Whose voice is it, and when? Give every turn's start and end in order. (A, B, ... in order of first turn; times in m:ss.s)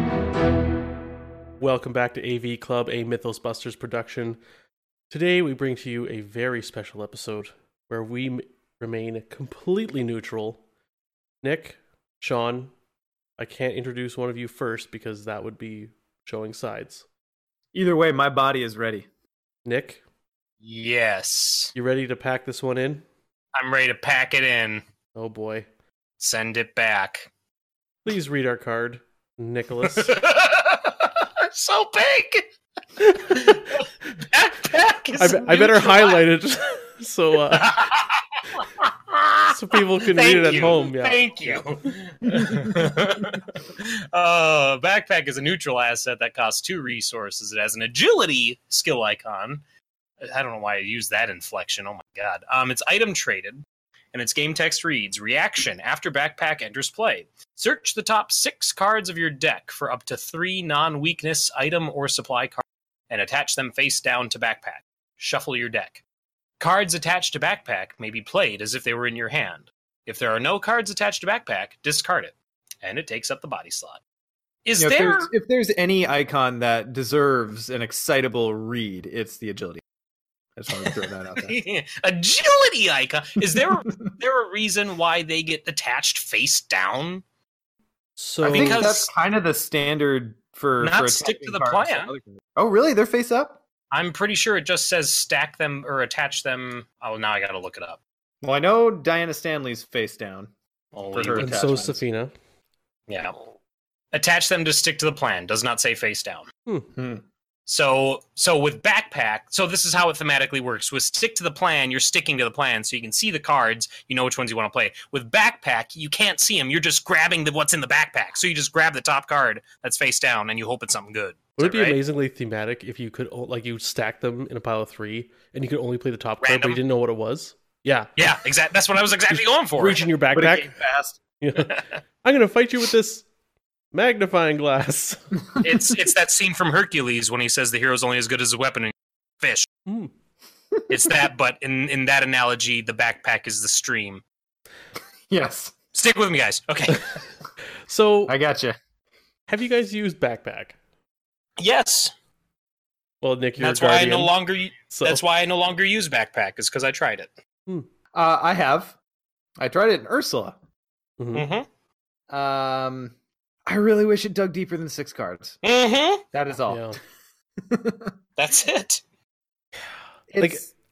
0:01.6-0:04.4 A
0:05.1-0:10.6 A
0:11.4-0:12.7 A
0:13.4-0:17.0 A
0:17.7-0:19.0 B
0:19.6-0:20.0 A
0:20.6-0:21.7 C
0:21.7-0:23.0 A
0:23.6-0:24.8 C
0:25.1-0:25.7 A
0:26.2-0:27.3 C
0:28.0-0:30.1 A
0:29.8-0:32.4 C
0:33.1-0:36.2 C
0:35.2-0:37.8 A
0:37.5-0:39.6 C
0:39.5-0:41.6 A
0:40.1-0:49.6 C
0:42.3-0:42.8 B
0:50.2-1:06.0 C
1:06.6-1:14.0 C
1:14.6-1:15.3 C
1:14.8-1:19.8 B
1:20.6-1:21.5 B
1:20.9-1:27.2 C
1:28.2-1:29.0 A
1:28.4-1:29.1 C
1:28.4-1:33.6 B
1:30.8-1:32.1 C
1:33.9-1:38.0 C
1:38.4-1:40.5 B
1:40.9-1:41.6 C
1:41.1-1:42.0 B
1:41.4-1:42.3 A
1:43.1-1:43.4 C
1:44.1-1:46.5 C
1:46.6-1:46.9 A
1:46.9-1:47.2 B
1:47.6-2:02.0 C
2:01.6-2:08.3 A
2:06.4-2:06.8 C
2:08.2-2:10.1 C
2:09.3-2:10.8 A
2:10.3-2:11.2 B
2:11.4-2:13.3 A
2:11.6-2:11.8 C
2:13.9-2:15.2 A
2:15.6-2:19.7 C
2:19.8-2:20.1 A
2:20.7-2:21.0 B
2:20.9-2:24.2 C
2:25.3-2:25.7 B
2:25.9-2:27.0 C
2:27.9-2:28.3 A
2:28.3-2:28.8 B
2:29.5-2:30.8 A
2:31.6-2:32.1 C
2:33.2-2:35.2 A
2:33.6-2:37.3 C
2:38.1-2:39.0 B
2:39.6-2:40.6 B
2:41.2-2:41.5 A
2:41.3-2:41.6 C
2:42.3-2:43.1 B
2:43.7-2:45.6 B
2:45.6-2:46.2 C
2:46.3-2:46.9 B
2:46.7-2:47.0 A
2:47.7-2:48.1 B
2:48.4-2:49.0 C
2:50.3-2:50.7 B
2:50.4-2:50.6 A